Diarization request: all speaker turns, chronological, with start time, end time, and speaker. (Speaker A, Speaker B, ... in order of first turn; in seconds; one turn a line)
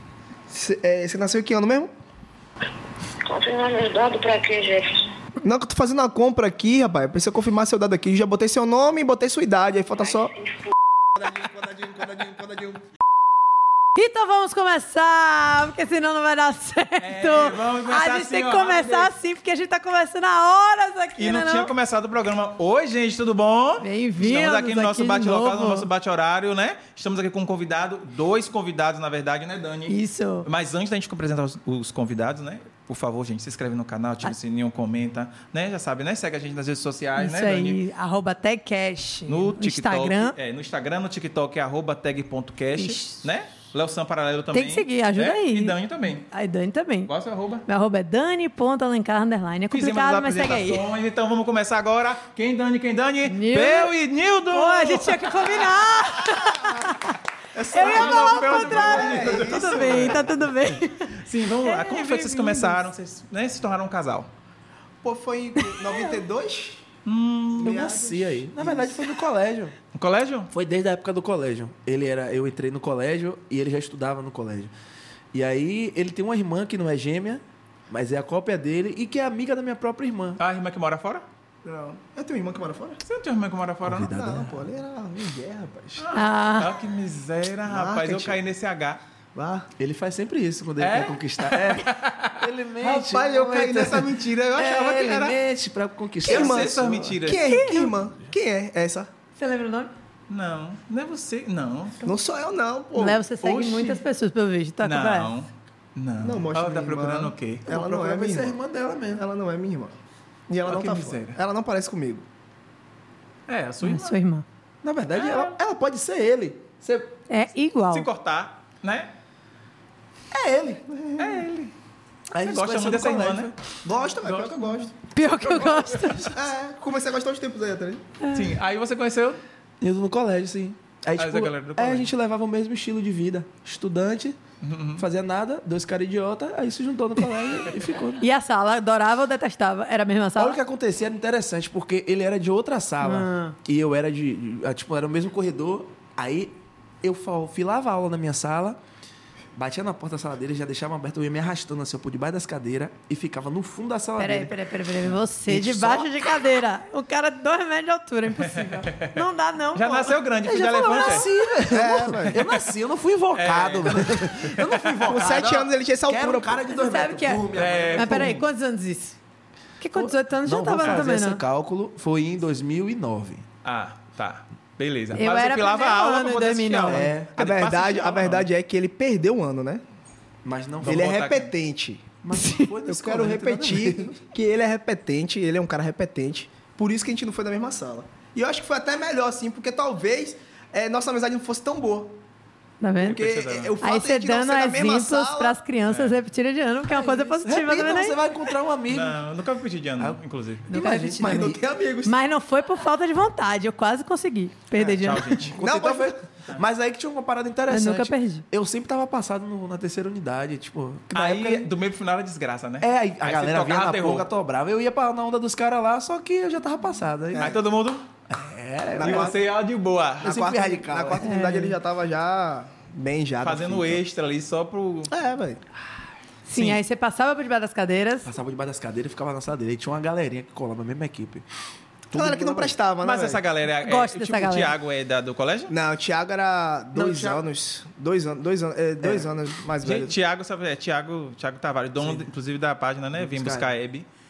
Speaker A: 0.5-1.9
Speaker B: 3.2-5.0
Speaker A: 5.4-10.3
Speaker B: 10.4-10.7
Speaker A: 11.2-12.8
Speaker C: 13.9-21.7
Speaker D: 17.0-19.1
Speaker D: 21.2-37.8
Speaker C: 23.8-25.9
Speaker C: 29.9-30.5
Speaker C: 37.2-40.4
Speaker D: 39.3-46.3
Speaker C: 42.8-43.2
Speaker C: 44.5-45.8
Speaker C: 46.3-47.1
Speaker D: 47.1-47.6
Speaker C: 47.7-50.9
Speaker D: 49.7-55.8
Speaker C: 53.2-54.0
Speaker C: 54.5-62.8
Speaker A: 56.3-56.8
Speaker A: 57.5-60.3
Speaker D: 57.7-60.4
Speaker D: 61.1-64.3
Speaker A: 65.0-66.8
Speaker C: 65.6-66.0
Speaker D: 67.0-67.9
Speaker A: 67.5-69.0
Speaker E: 67.6-69.8
Speaker D: 69.9-70.5
Speaker E: 70.5-74.7
Speaker E: 75.3-80.4
Speaker D: 80.4-81.2
Speaker A: 81.6-83.0
Speaker D: 83.0-84.1
Speaker E: 83.8-84.7
Speaker A: 84.0-86.1
Speaker D: 86.0-89.0
Speaker C: 86.1-86.8
Speaker A: 87.7-88.4
Speaker A: 89.3-89.7
Speaker E: 89.8-97.2
Speaker D: 90.8-95.4
Speaker A: 92.8-94.2
Speaker A: 96.2-99.1
Speaker D: 96.2-97.5
Speaker C: 97.3-97.9
Speaker C: 99.4-99.9
Speaker D: 100.3-102.1
Speaker A: 102.0-103.2
Speaker C: 103.0-105.3
Speaker D: 103.4-104.0
Speaker D: 104.8-107.7
Speaker A: 106.2-108.6
Speaker E: 107.7-109.2
Speaker A: 109.1-109.9
Speaker A: 110.5-112.2
Speaker D: 110.7-111.4
Speaker D: 113.5-114.2
Speaker C: 113.8-114.5
Speaker E: 114.8-117.1
Speaker D: 115.1-115.5
Speaker C: 117.3-118.1
Speaker D: 117.9-119.1
Speaker E: 120.3-120.8
Speaker A: 120.9-121.5
Speaker D: 121.2-121.7
Speaker E: 122.3-123.5
Speaker D: 122.4-123.5
Speaker A: 123.8-124.9
Speaker D: 124.2-124.9
Speaker C: 125.1-126.4
Speaker E: 125.4-126.3
Speaker A: 126.3-128.0
Speaker C: 128.2-128.5
Speaker D: 128.3-129.4
Speaker E: 129.8-134.4
Speaker D: 131.2-132.1
Speaker D: 134.6-135.1
Speaker E: 135.0-138.2
Speaker C: 138.2-140.6
Speaker E: 140.4-148.8
Speaker C: 143.0-143.6
Speaker E: 149.6-154.6
Speaker C: 154.2-160.2
Speaker E: 155.5-156.2
Speaker D: 158.4-159.2
Speaker D: 159.8-161.3
Speaker E: 160.4-168.4
Speaker C: 160.8-161.2
Speaker A: 161.7-162.4
Speaker D: 162.1-162.5
Speaker D: 163.3-165.0
Speaker A: 165.1-166.6
Speaker C: 166.7-169.2
Speaker D: 167.5-168.4
Speaker C: 169.8-171.4
Speaker E: 169.9-173.4
Speaker D: 173.6-178.5
Speaker C: 175.2-177.1
Speaker E: 176.9-177.3
Speaker A: 176.9-179.8
Speaker E: 180.4-181.4
Speaker A: 180.8-182.1
Speaker D: 180.9-181.5
Speaker E: 182.2-184.1
Speaker C: 182.3-182.7
Speaker A: 182.8-192.2
Speaker C: 192.8-193.2
Speaker D: 193.0-193.8
Speaker A: 193.1-195.6
Speaker C: 193.8-198.5
Speaker D: 195.9-196.2
Speaker E: 197.1-199.2
Speaker D: 198.9-200.7
Speaker E: 200.0-201.6
Speaker C: 200.7-205.5
Speaker A: 201.2-202.2
Speaker D: 204.8-205.6
Speaker E: 205.4-211.7
Speaker A: 205.6-206.2
Speaker C: 207.7-208.4
Speaker D: 211.1-214.3
Speaker E: 212.8-217.6
Speaker A: 217.3-217.6
Speaker D: 217.3-218.1
Speaker E: 218.3-219.4
Speaker A: 218.9-219.4
Speaker D: 219.0-220.4
Speaker E: 220.2-221.3
Speaker A: 220.2-224.0
Speaker C: 221.2-221.8
Speaker D: 223.4-225.1
Speaker A: 225.1-225.6
Speaker C: 226.5-228.3
Speaker D: 226.5-226.8
Speaker E: 228.2-231.5
Speaker E: 232.1-232.8
Speaker A: 232.1-233.4
Speaker D: 233.0-235.7
Speaker C: 233.8-234.8
Speaker A: 235.7-240.2
Speaker E: 236.9-237.4
Speaker E: 239.0-239.3
Speaker D: 239.8-244.1
Speaker E: 242.0-242.3
Speaker E: 243.2-243.7